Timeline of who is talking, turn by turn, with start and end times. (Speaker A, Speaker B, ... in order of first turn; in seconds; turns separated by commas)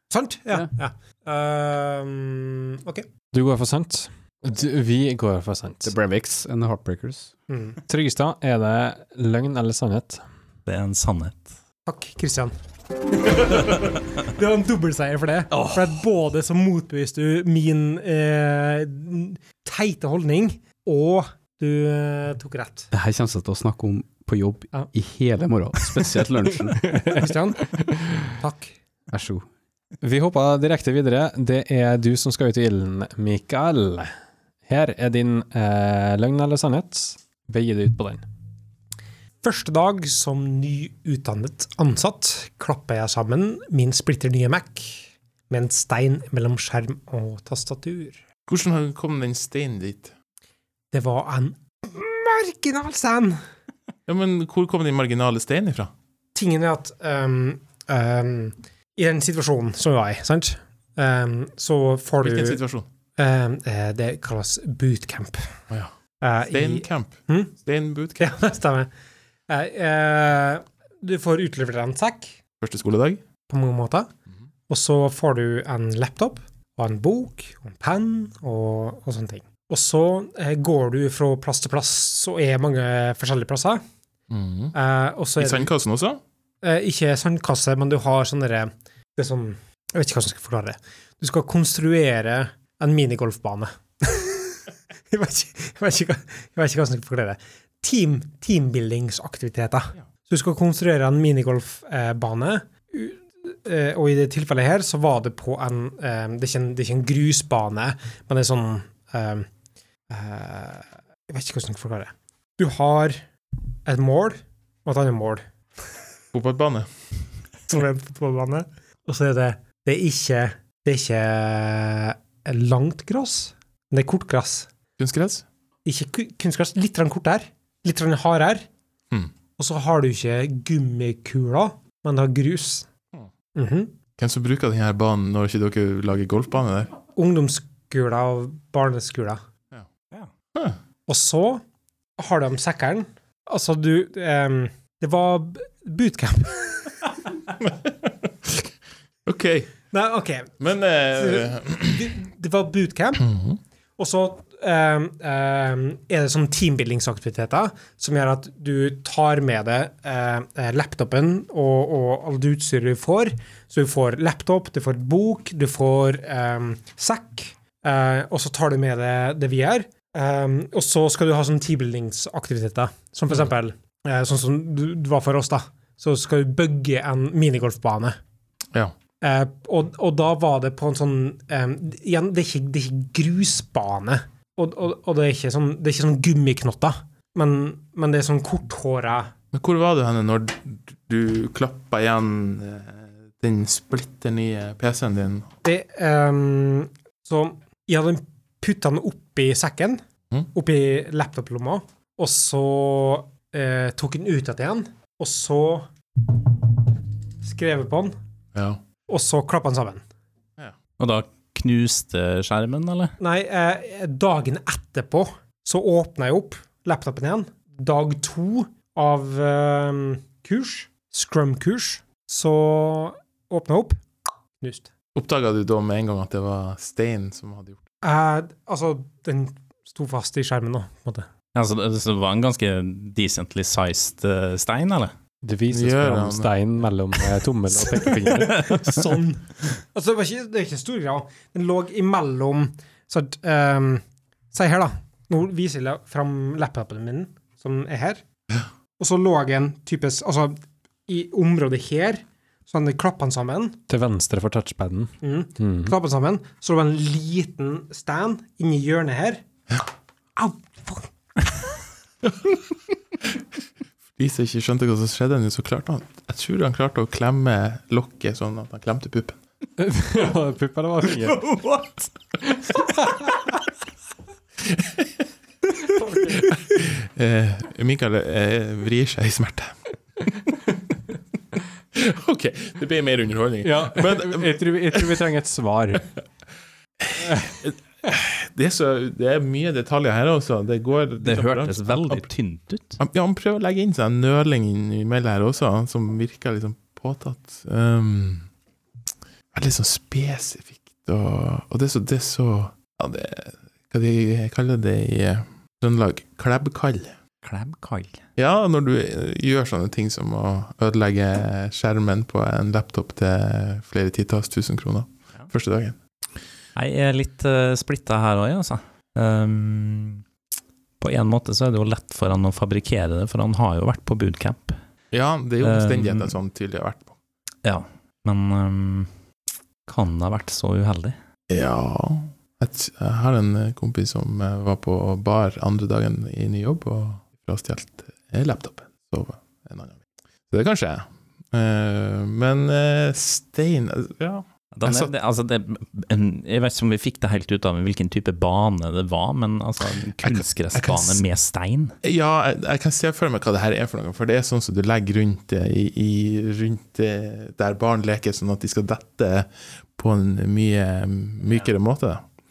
Speaker A: 0.1-3.1, Speaker B: 3.3-5.9, Speaker C: 5.8-7.3, Speaker A: 7.5-7.8, Speaker B: 7.9-10.2, Speaker D: 10.7-11.6, Speaker A: 11.9-12.5, Speaker A: 13.1-22.9, Speaker C: 22.9-26.9, Speaker B: 26.8-27.2, Speaker A: 27.1-27.7, Speaker A: 28.4-28.8, Speaker C: 29.1-29.4, Speaker B: 30.0-34.1, Speaker B: 34.7-38.2, Speaker A: 39.4-48.2, Speaker E: 48.5-50.1, Speaker A: 50.9-53.4, Speaker E: 54.1-55.9, Speaker A: 56.4-62.6, Speaker E: 62.2-62.9, Speaker A: 63.2-65.5, Speaker A: 66.2-67.5, Speaker E: 66.5-68.3, Speaker A: 68.2-68.9, Speaker A: 69.5-72.3, Speaker E: 72.6-73.2, Speaker A: 73.5-74.1, Speaker A: 74.7-83.8, Speaker E: 84.3-84.7, Speaker A: 84.7-85.7, Speaker E: 85.4-86.2, Speaker A: 86.6-109.5, Speaker A: 110.1-113.2, Speaker A: 113.9-115.5, Speaker E: 116.3-116.9, Speaker A: 117.7-124.7, Speaker E: 125.0-125.5, Speaker A: 125.8-128.7, Speaker A: 129.6-132.9, Speaker A: 133.6-133.9, Speaker E: 134.2-136.9, Speaker A: 137.2-139.4, Speaker A: 141.1-141.6, Speaker A: 142.2-147.1, Speaker E: 147.6-148.1, Speaker E: 149.3-149.7, Speaker A: 149.9-150.6, Speaker E: 150.6-152.1, Speaker A: 151.1-153.3, Speaker E: 153.2-153.6, Speaker A: 154.0-178.2, Speaker A: 179.2-189.3, Speaker E: 189.5-195.5, Speaker A: 195.6-200.0, Speaker A: 200.5-206.4, Speaker A: 207.4-208.2, Speaker E: 208.5-208.8, Speaker A: 209.1-210.0, Speaker D: 211.0-213.2, Speaker A: 213.2-224.0, Speaker A: 224.6-224.9, Speaker E: 225.2-227.8, Speaker A: 228.0-231.3, Speaker D: 231.6-235.1, Speaker B: 235.4-238.9, Speaker E: 235.7-236.5, Speaker A: 238.0-248.2, Speaker A: 249.0-253.8, Speaker B: 253.9-255.9, Speaker A: 255.2-259.4, Speaker A: 260.4-261.1, Speaker E: 262.3-262.6, Speaker E: 264.2-269.4, Speaker B: 269.8-271.5, Speaker B: 272.7-273.2, Speaker E: 274.7-275.1, Speaker E: 275.8-280.6, Speaker B: 276.0-276.3, Speaker E: 281.9-285.1, Speaker B: 283.6-286.1, Speaker E: 287.0-292.3, Speaker D: 291.2-293.0, Speaker E: 293.0-298.5, Speaker E: 299.5-307.2, Speaker D: 307.4-308.2, Speaker E: 308.4-316.0, Speaker D: 316.8-320.2, Speaker D: 321.0-324.8, Speaker E: 325.1-327.1, Speaker D: 325.6-326.4, Speaker D: 327.6-329.1, Speaker D: 329.9-331.1, Speaker E: 331.5-345.1, Speaker D: 344.8-351.9, Speaker E: 350.2-351.2, Speaker E: 352.0-362.3